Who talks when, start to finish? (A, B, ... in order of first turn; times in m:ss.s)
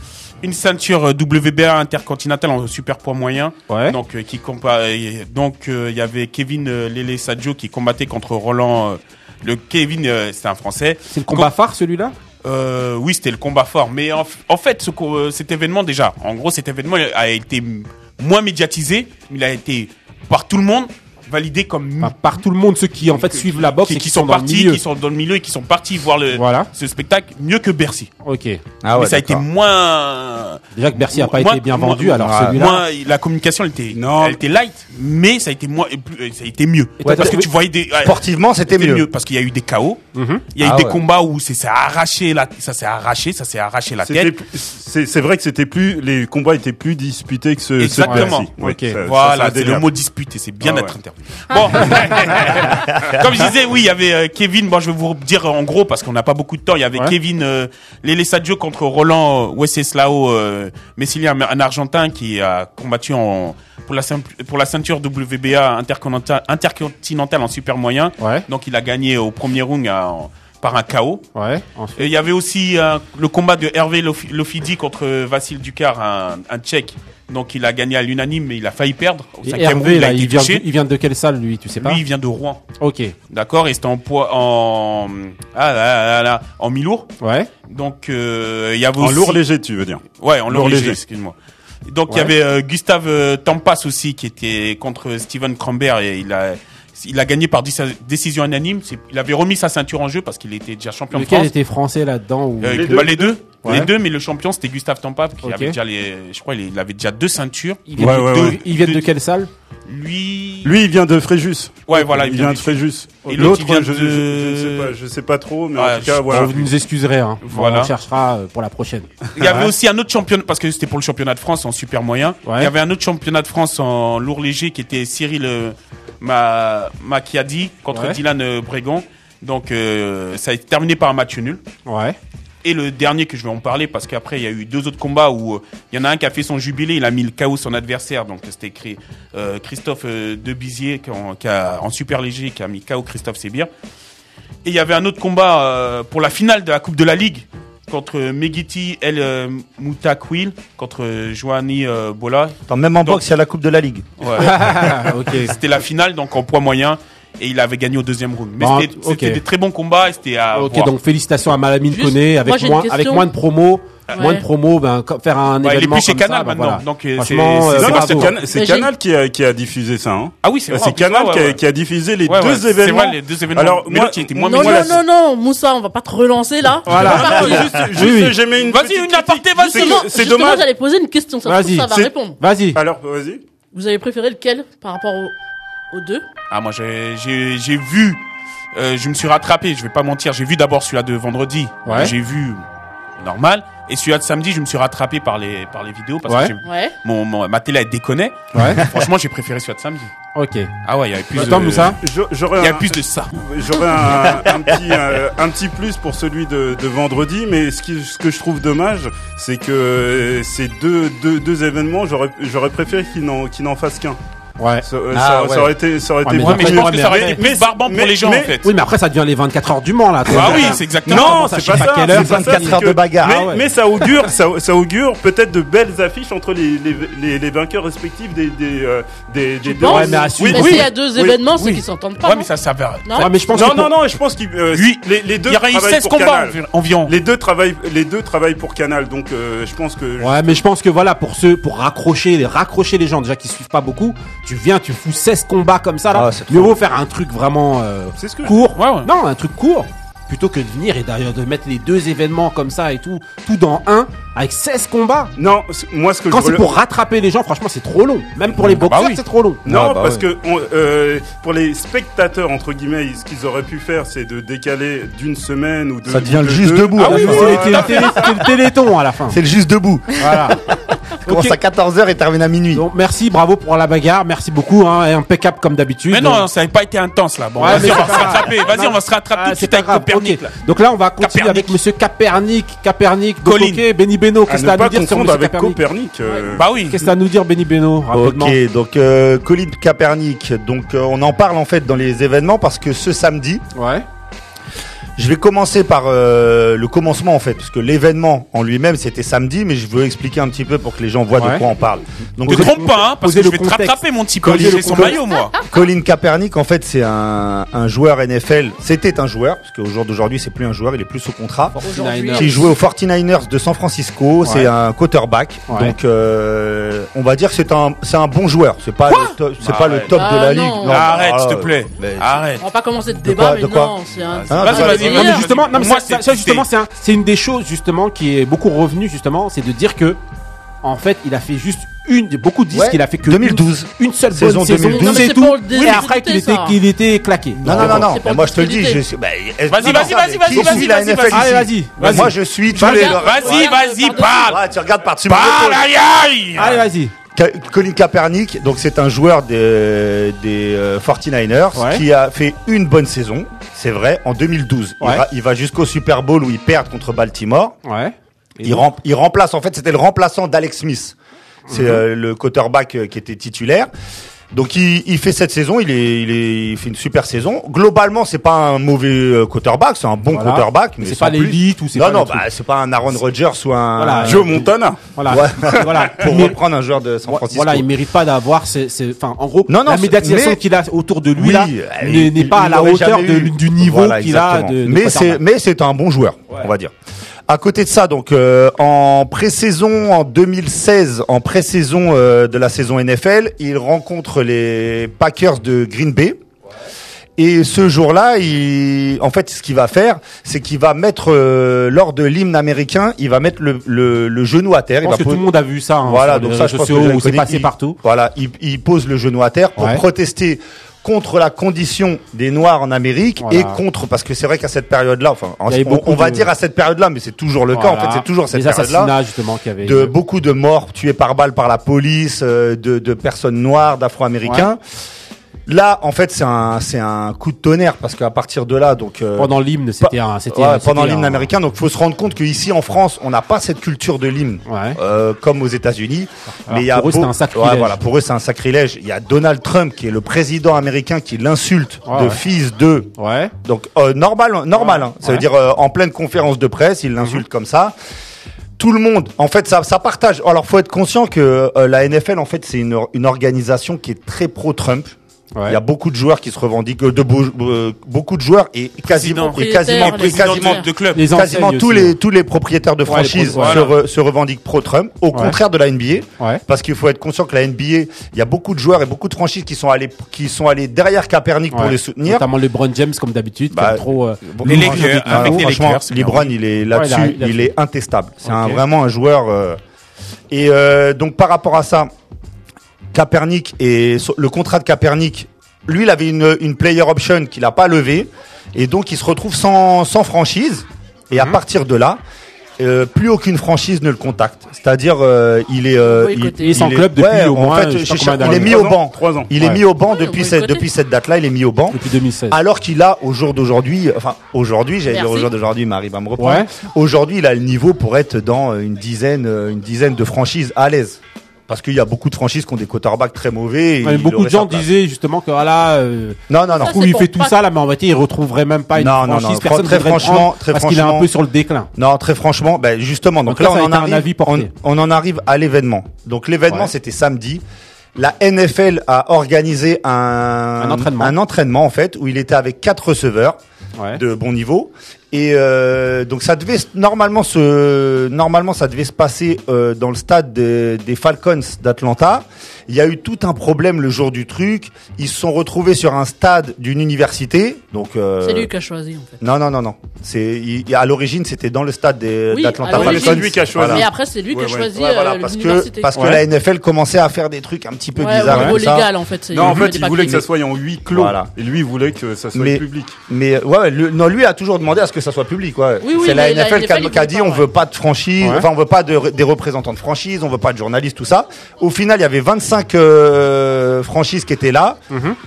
0:00.4-0:11.5 A
0:03.7-0:04.0 B
0:11.1-0:12.1 B
0:12.4-0:22.4 A
0:22.0-0:24.8 B
0:23.1-0:28.1 A
0:26.3-0:26.7 B
0:28.2-0:28.6 B
0:28.8-0:29.5 C
0:28.9-0:40.0 A
0:30.8-0:32.8 B
0:32.2-0:32.6 C
0:33.9-0:34.4 D
0:37.0-0:37.5 C
0:37.0-0:37.5 B
0:38.0-0:39.1 C
0:40.2-0:40.4 B
0:40.5-0:44.3 A
0:40.6-0:41.0 C
0:44.0-0:49.9 D
0:47.8-0:48.5 A
0:48.0-0:49.0 B
0:49.0-1:11.2 A
0:50.6-0:51.0 D
1:08.2-1:08.4 B
1:11.4-1:12.0 B
1:12.0-1:20.6 A
1:19.4-1:22.0 B
1:21.8-1:22.6 A
1:22.8-1:23.1 B
1:23.3-1:27.1 A
1:27.2-1:27.5 B
1:27.7-1:29.4 A
1:29.0-1:31.0 D
1:30.2-1:31.4 A
1:31.9-1:41.5 A
1:41.1-1:43.1 B
1:42.6-1:49.1 A
1:42.7-1:43.7 D
1:43.6-1:43.9 B
1:45.4-1:45.8 B
1:47.9-1:49.5 B
1:48.0-1:48.6 D
1:49.9-1:50.8 A
1:50.6-1:56.7 D
1:51.9-1:54.9 A
1:53.2-1:53.6 B
1:55.8-1:56.3 A
1:56.3-1:59.7 B
1:57.4-1:57.9 A
1:59.4-2:11.6 A
2:02.4-2:02.7 B
2:07.9-2:08.2 B
2:11.9-2:12.2 B
2:12.6-2:23.7 A
2:24.6-2:33.2 A
2:32.7-2:34.8 C
2:34.2-2:40.9 A
2:34.4-2:35.5 B
2:38.6-2:39.4 B
2:40.5-2:48.3 B
2:41.9-2:43.3 E
2:44.2-2:44.4 E
2:45.6-2:48.4 A
2:47.7-2:55.0 D
2:48.5-2:48.9 E
2:50.4-2:51.6 A
2:52.3-2:55.0 A
2:54.5-2:57.9 E
2:56.9-2:58.4 B
2:56.9-3:00.6 D
2:58.6-3:00.1 A
2:59.6-3:02.4 E
3:01.4-3:02.8 B
3:02.8-3:03.4 D
3:03.7-3:05.3 E
3:05.9-3:06.2 E
3:06.5-3:08.2 A
3:08.8-3:12.6 A
3:11.8-3:12.1 B
3:13.2-3:20.1 A
3:16.3-3:16.5 B
3:16.6-3:16.9 E
3:18.6-3:18.8 B
3:20.4-3:20.7 B
3:20.8-3:22.0 A
3:21.4-3:22.0 B
3:21.4-3:34.2 D
3:22.6-3:23.4 A
3:34.6-3:34.8 B
3:34.8-3:38.5 D
3:35.1-3:35.7 C
3:36.2-3:37.4 B
3:36.4-3:38.7 A
3:38.6-3:43.6 B
3:40.3-3:41.8 A
3:40.3-3:51.4 D
3:42.1-3:43.4 C
3:49.6-3:52.5 E
3:49.8-3:50.9 B
3:51.6-3:51.8 B
3:52.2-3:53.3 A
3:53.0-3:53.3 E
3:53.2-3:54.0 B
3:53.5-4:00.6 D
3:54.7-3:57.1 A
4:00.2-4:15.3 B
4:06.1-4:06.8 C
4:08.2-4:08.5 D
4:08.7-4:09.1 A
4:15.4-4:16.8 D
4:16.3-4:19.6 B
4:18.5-4:18.8 C
4:18.8-4:19.2 A
4:19.6-4:28.2 D
4:19.7-4:20.3 C
4:26.1-4:27.7 C
4:27.0-4:28.4 A
4:27.0-4:29.4 B
4:29.3-4:32.8 C
4:30.2-4:30.6 B
4:31.3-4:31.6 B
4:32.7-4:36.4 B
4:36.1-4:40.6 A
4:37.6-4:45.8 B
4:41.2-4:41.8 A
4:43.4-4:43.9 A
4:44.5-4:47.0 D
4:46.5-4:47.0 A
4:46.9-4:48.6 B
4:48.1-4:53.6 C
4:53.8-4:54.0 B
4:55.2-5:02.9 C
5:01.4-5:01.6 B
5:02.4-5:05.2 B
5:02.5-5:05.5 A
5:04.4-5:11.8 C
5:11.8-5:12.7 B
5:11.8-5:12.7 E
5:12.3-5:22.4 C
5:14.4-5:14.7 B
5:15.7-5:16.0 B
5:19.1-5:19.4 B
5:19.6-5:20.2 A
5:20.2-5:21.0 E
5:20.8-5:22.6 A
5:22.6-5:25.7 E
5:23.2-5:24.0 C
5:24.3-5:26.7 A
5:24.5-5:25.4 C
5:24.9-5:30.2 B
5:30.8-5:38.1 B
5:32.7-5:36.0 C
5:34.9-5:36.8 E
5:37.6-5:37.9 A
5:37.6-5:45.9 C
5:37.8-5:39.0 E
5:39.7-5:41.6 A
5:40.6-5:43.1 B
5:42.8-5:44.5 E
5:43.0-5:44.6 A
5:45.3-5:46.8 A
5:46.6-5:47.1 B
5:47.4-5:57.8 C
5:51.8-5:52.0 B
5:55.0-5:55.2 B
5:57.8-5:58.8 B
5:58.6-6:01.2 C
6:01.7-6:02.0 B
6:01.7-6:03.9 C
6:04.5-6:14.6 C
6:10.3-6:12.5 B
6:14.0-6:16.6 B
6:14.3-6:15.0 D
6:15.3-6:17.9 C
6:17.3-6:25.4 B
6:19.7-6:20.6 C
6:21.4-6:26.9 C
6:27.5-6:36.4 C
6:37.4-6:45.4 C
6:45.0-6:48.0 B
6:46.0-6:59.1 C
6:49.8-6:50.0 B
6:53.4-6:53.8 B
6:55.7-6:56.5 B
6:57.7-7:00.1 B
6:59.8-7:04.8 C
7:05.7-7:28.0 C
7:09.4-7:11.5 B
7:14.7-7:15.0 B
7:16.7-7:18.0 B
7:22.1-7:22.4 B
7:23.2-7:23.5 B
7:24.9-7:25.5 B
7:28.8-7:52.5 C
7:39.1-7:41.2 A
7:39.4-7:40.9 E
7:41.2-7:42.2 B
7:43.1-7:43.9 B
7:43.6-7:43.9 A
7:51.7-7:55.7 B
7:53.7-7:59.8 C
7:54.7-7:56.5 A
7:56.9-7:57.7 B
7:58.4-7:58.8 B
8:00.5-8:02.1 C
8:03.1-8:12.2 C
8:12.8-8:22.0 C
8:16.0-8:17.0 E
8:16.6-8:18.9 B
8:18.4-8:19.5 D
8:20.1-8:20.8 E
8:21.9-8:22.6 B
8:22.5-8:34.9 C
8:25.1-8:25.5 E
8:26.4-8:26.7 B
8:34.0-8:41.9 B
8:36.5-8:37.0 C
8:36.7-8:37.6 E
8:39.0-8:41.3 C
8:42.0-8:47.6 C
8:43.5-8:44.7 B
8:48.2-8:53.6 C
8:50.8-8:51.4 B
8:54.2-9:08.7 C
9:08.4-9:09.4 E
9:09.4-9:14.1 C
9:12.5-9:16.3 E
9:12.8-9:14.9 D
9:14.9-9:19.1 C
9:16.1-9:16.4 B
9:18.2-9:20.4 E
9:18.5-9:18.8 B
9:19.5-9:23.2 D
9:21.1-9:21.5 C
9:22.5-9:35.0 C
9:26.0-9:27.7 E
9:28.4-9:28.7 B
9:35.1-9:35.4 B